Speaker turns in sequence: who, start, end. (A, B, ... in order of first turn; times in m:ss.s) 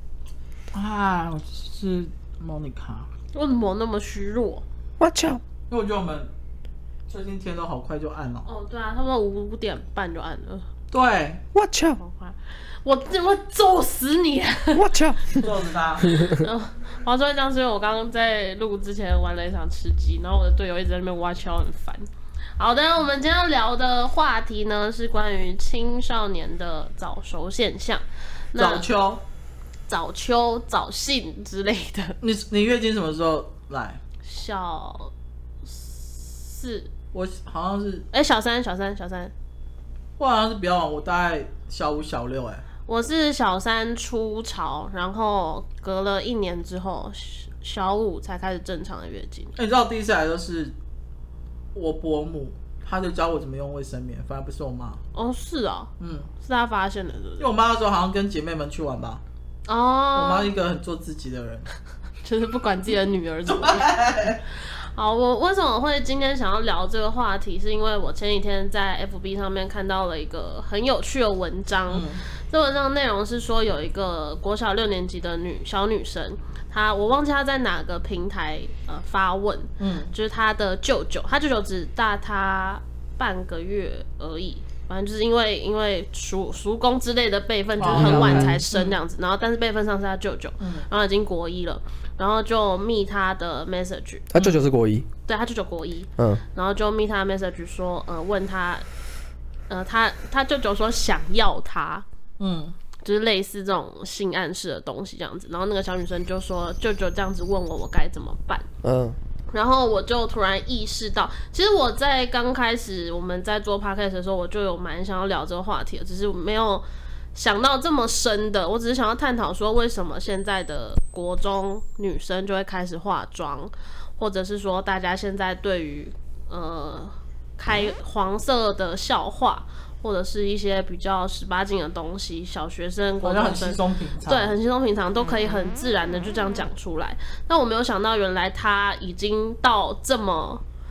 0:00.7-0:03.1 A
0:03.3-0:04.6 B
0:05.0-0:05.4 C
0:05.7-0:06.3 A
0:07.1-0:08.5 A
0:08.4-0:10.6 B
0:10.9-0:11.4 A
0:11.5-0:12.0 C
0:12.0-0:14.8 B
0:14.7-0:15.5 C
0:15.3-0:16.1 A
0:16.0-0:16.5 C
0:16.2-0:22.0 B
0:22.6-0:28.9 B
0:28.6-0:29.2 A
0:29.9-0:32.2 B
0:32.2-0:34.0 A
0:34.2-0:35.1 B
0:35.6-0:36.9 B
0:37.1-0:38.1 A
0:38.1-0:39.3 B
0:40.2-0:42.6 A
0:42.9-0:49.5 B
0:49.6-0:50.7 A
0:51.7-0:55.0 A
0:55.1-0:57.5 B
0:56.0-0:56.3 A
0:57.4-0:59.2 A
0:59.7-1:00.5 B
1:00.1-1:01.7 A
1:02.2-1:03.9 B
1:03.4-1:04.4 A
1:04.5-1:34.3 B
1:11.9-1:12.2 A
1:19.8-1:20.1 A
1:27.8-1:29.0 A
1:27.9-1:28.6 C
1:30.6-1:30.8 A
1:34.3-1:35.1 C
1:35.2-1:38.8 B
1:39.7-1:42.0 B
1:42.4-1:42.7 A
1:43.0-1:48.6 B
1:48.8-1:49.2 C
1:49.5-2:20.6 B
2:13.2-2:14.6 A